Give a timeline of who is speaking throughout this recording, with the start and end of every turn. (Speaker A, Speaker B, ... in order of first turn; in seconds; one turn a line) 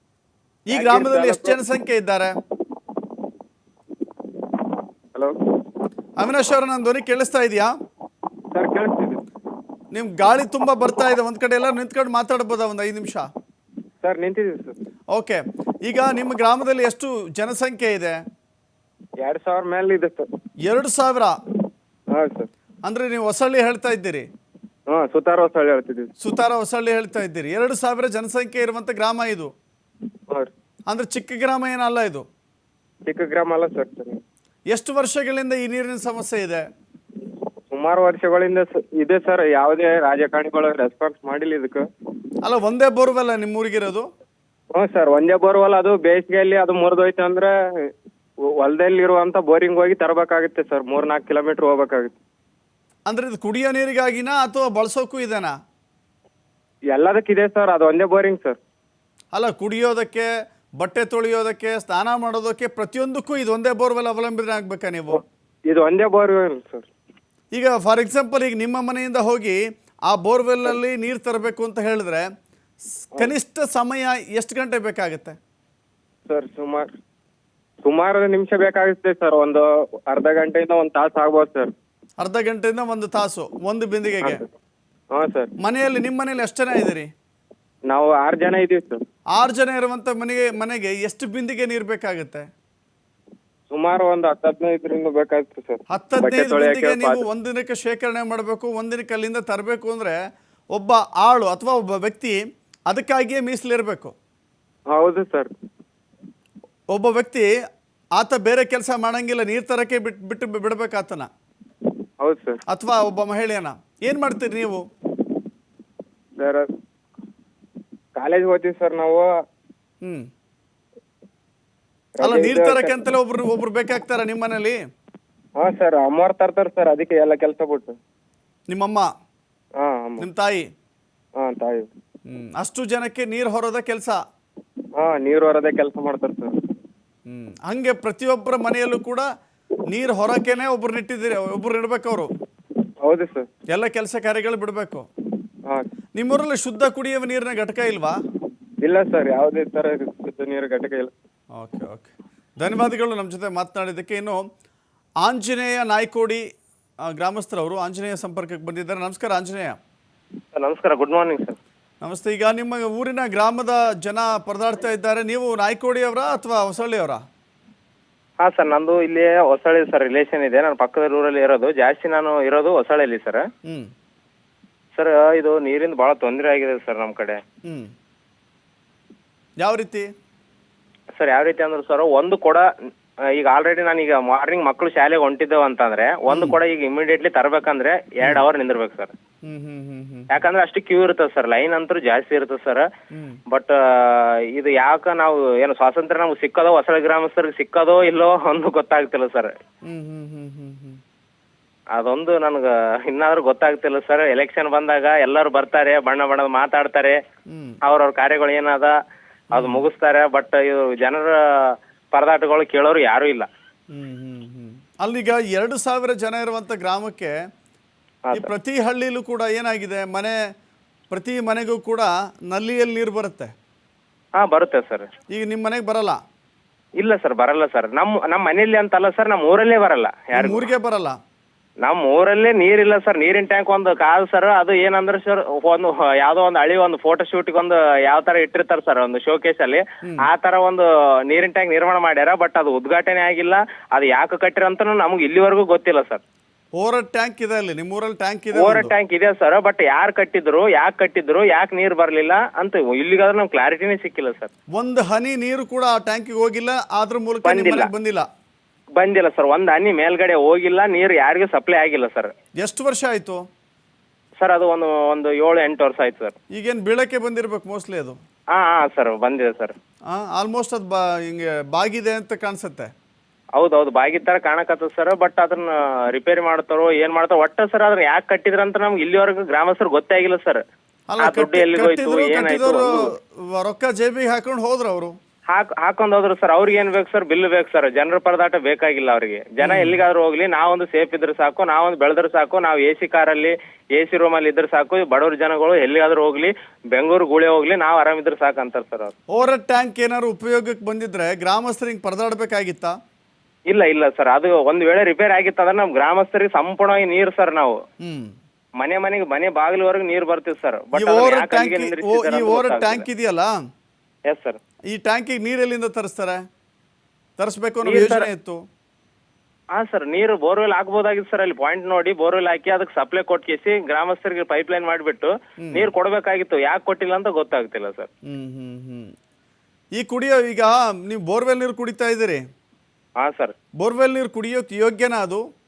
Speaker A: 0.7-2.3
Speaker B: 0.7-1.6
Speaker A: 6.2-7.7
Speaker B: 8.5-9.2
Speaker A: 9.9-13.3
Speaker B: 14.0-14.8
Speaker A: 15.1-18.2
Speaker B: 19.2-20.3
Speaker A: 20.6-21.4
Speaker B: 22.1-22.5
Speaker A: 22.9-24.2
Speaker B: 24.9-26.1
Speaker A: 26.2-29.5
Speaker A: 30.9-32.2
Speaker B: 33.0-34.2
Speaker A: 34.7-36.6
Speaker B: 37.7-41.9
Speaker A: 42.4-44.1
Speaker B: 44.7-47.9
Speaker B: 48.4-52.1
Speaker A: 53.1-55.6
Speaker B: 56.9-58.6
Speaker A: 59.3-65.2
Speaker B: 65.1-66.9
Speaker A: 67.5-72.3
Speaker A: 73.0-75.4
Speaker B: 76.3-77.0
Speaker B: 77.8-81.7
Speaker A: 82.2-84.4
Speaker B: 84.2-84.5
Speaker B: 85.1-85.5
Speaker A: 85.6-87.1
Speaker B: 87.9-89.0
Speaker A: 89.3-92.5
Speaker B: 93.7-97.2
Speaker A: 95.9-100.2
Speaker A: 100.7-104.1
Speaker B: 104.9-105.5
Speaker A: 106.9-107.5
Speaker A: 108.2-111.3
Speaker B: 112.2-112.6
Speaker A: 112.7-114.8
Speaker B: 116.4-116.7
Speaker B: 118.2-119.3
Speaker A: 120.0-120.3
Speaker B: 122.2-123.0
Speaker A: 122.2-124.8
Speaker B: 125.6-128.0
Speaker A: 128.7-129.1
Speaker B: 129.8-130.3
Speaker A: 130.2-130.7
Speaker B: 131.4-131.9
Speaker A: 132.3-134.2
Speaker B: 135.0-136.6
Speaker A: 137.3-139.3
Speaker A: 139.9-142.3
Speaker B: 143.0-143.5
Speaker A: 143.7-145.1
Speaker A: 146.2-148.2
Speaker B: 148.8-151.1
Speaker A: 151.5-154.5
Speaker A: 155.2-156.4
Speaker A: 157.0-159.8
Speaker C: 160.5-161.6
Speaker A: 162.0-167.2
Speaker C: 168.4-173.5
Speaker A: 173.7-173.9
Speaker C: 174.9-177.4
Speaker A: 177.6-177.9
Speaker A: 179.6-180.1
Speaker C: 181.2-182.7
Speaker C: 183.2-189.1
Speaker A: 186.3-186.6
Speaker A: 189.4-190.3
Speaker C: 190.3-192.9
Speaker A: 193.1-193.4
Speaker C: 193.5-199.5
Speaker A: 199.8-201.0
Speaker C: 201.9-207.2
Speaker A: 207.5-207.8
Speaker C: 207.8-208.9
Speaker A: 209.5-209.8
Speaker C: 209.5-213.5
Speaker A: 213.9-217.3
Speaker A: 218.3-220.4
Speaker A: 221.1-223.5
Speaker C: 224.4-225.1
Speaker A: 225.3-226.2
Speaker C: 227.0-230.7
Speaker A: 230.3-231.2
Speaker C: 231.8-246.2
Speaker A: 246.8-248.9
Speaker C: 248.5-254.5
Speaker A: 254.8-258.3
Speaker C: 257.4-257.9
Speaker C: 259.0-262.3
Speaker A: 262.6-263.4
Speaker C: 264.4-266.4
Speaker A: 266.5-268.2
Speaker C: 268.5-269.7
Speaker A: 270.1-272.9
Speaker C: 273.6-280.6
Speaker A: 281.1-285.2
Speaker C: 281.2-283.1
Speaker C: 285.5-299.1
Speaker A: 289.6-290.0
Speaker A: 299.3-303.0
Speaker C: 303.7-307.8
Speaker A: 308.0-308.3
Speaker C: 308.8-313.0
Speaker A: 310.9-313.5
Speaker C: 314.3-314.6
Speaker A: 314.9-316.4
Speaker A: 317.4-318.6
Speaker C: 317.9-318.3
Speaker C: 319.7-328.1
Speaker A: 325.6-325.9
Speaker A: 328.2-329.1
Speaker A: 330.0-332.4
Speaker C: 333.2-333.5
Speaker A: 333.8-335.4